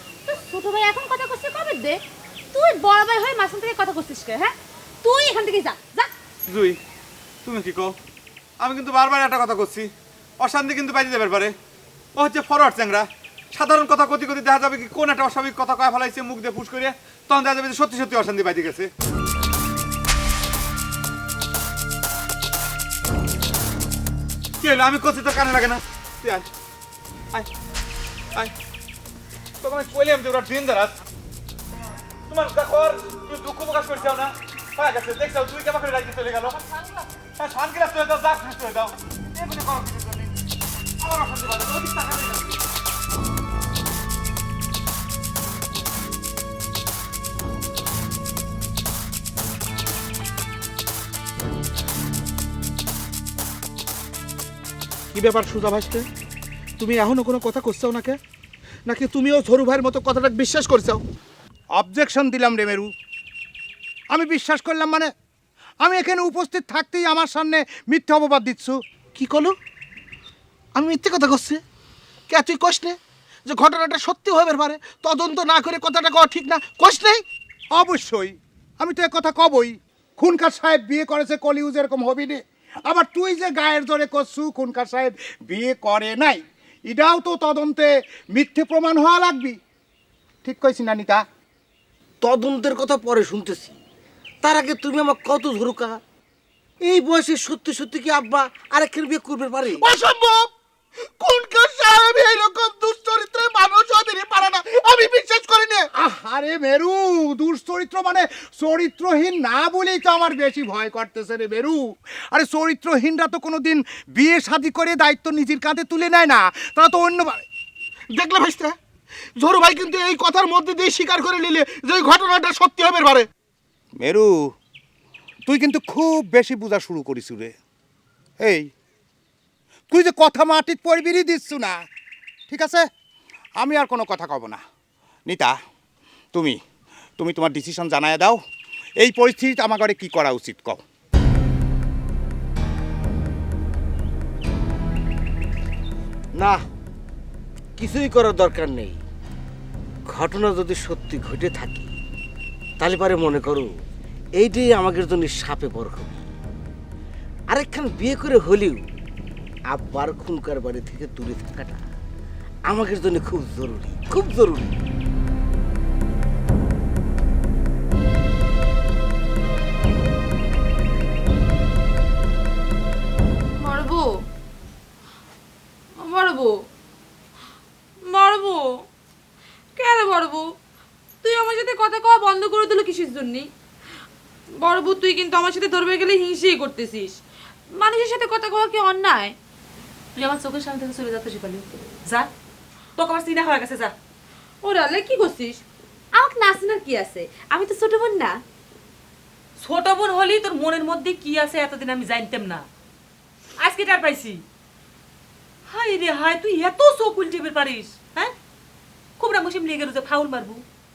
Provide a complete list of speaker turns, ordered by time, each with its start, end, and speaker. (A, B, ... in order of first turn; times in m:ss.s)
0:00.2-0:02.0 A
0:02.5-0:06.1 A
0:06.5-0:06.8 B
0:07.4-0:08.0 B
0:08.6-0:09.9 B
0:10.4-0:11.5 B
0:12.2-0:18.9 B
0:24.6-0:26.4 B
0:29.6-0:31.0 B
0:32.3-0:36.6 B
0:36.7-0:37.0 C
0:37.4-0:40.4 B
0:41.0-0:42.6 B
0:55.1-0:56.0 D
0:56.8-0:58.2 D
0:58.9-1:01.0 D
1:01.8-1:02.9 E
1:04.1-1:05.1 E
1:05.8-1:08.8 E
1:09.2-1:09.5 D
1:10.8-1:11.6 D
1:12.3-1:17.2 D
1:17.7-1:29.6 E
1:30.4-1:31.2 E
1:32.2-1:33.8 F
1:34.4-1:36.0 F
1:36.8-1:39.8 F
1:39.8-1:40.5 D
1:41.2-1:45.8 D
1:46.0-1:57.4 E
1:58.1-1:58.7 D
1:59.4-2:03.3 D
2:04.0-2:04.3 E
2:05.4-2:07.5 E
2:08.4-2:08.7 E
2:09.9-2:11.8 E
2:12.5-2:12.8 E
2:13.6-2:14.6 E
2:15.3-2:15.6 E
2:16.3-2:16.6 E
2:17.2-2:18.4 E
2:19.0-2:20.8 E
2:27.8-2:29.0 F
2:30.1-2:31.9 F
2:32.8-2:33.7 F
2:34.4-2:36.2 F
2:37.5-2:38.8 F
2:39.7-2:41.8 F
2:42.7-2:44.7 F
2:53.6-2:54.1 A
2:56.0-2:56.6 A
2:58.1-2:58.8 A
2:59.8-3:00.5 A
3:01.2-3:03.5 A
3:04.6-3:07.2 A
3:07.7-3:09.4 A
3:10.2-3:12.3 C
3:13.0-3:13.9 C
3:14.6-3:15.6 A
3:16.1-3:18.4 A
3:19.6-3:22.6 C
3:23.6-3:24.4 C
3:25.7-3:28.3 C
3:29.2-3:30.6 C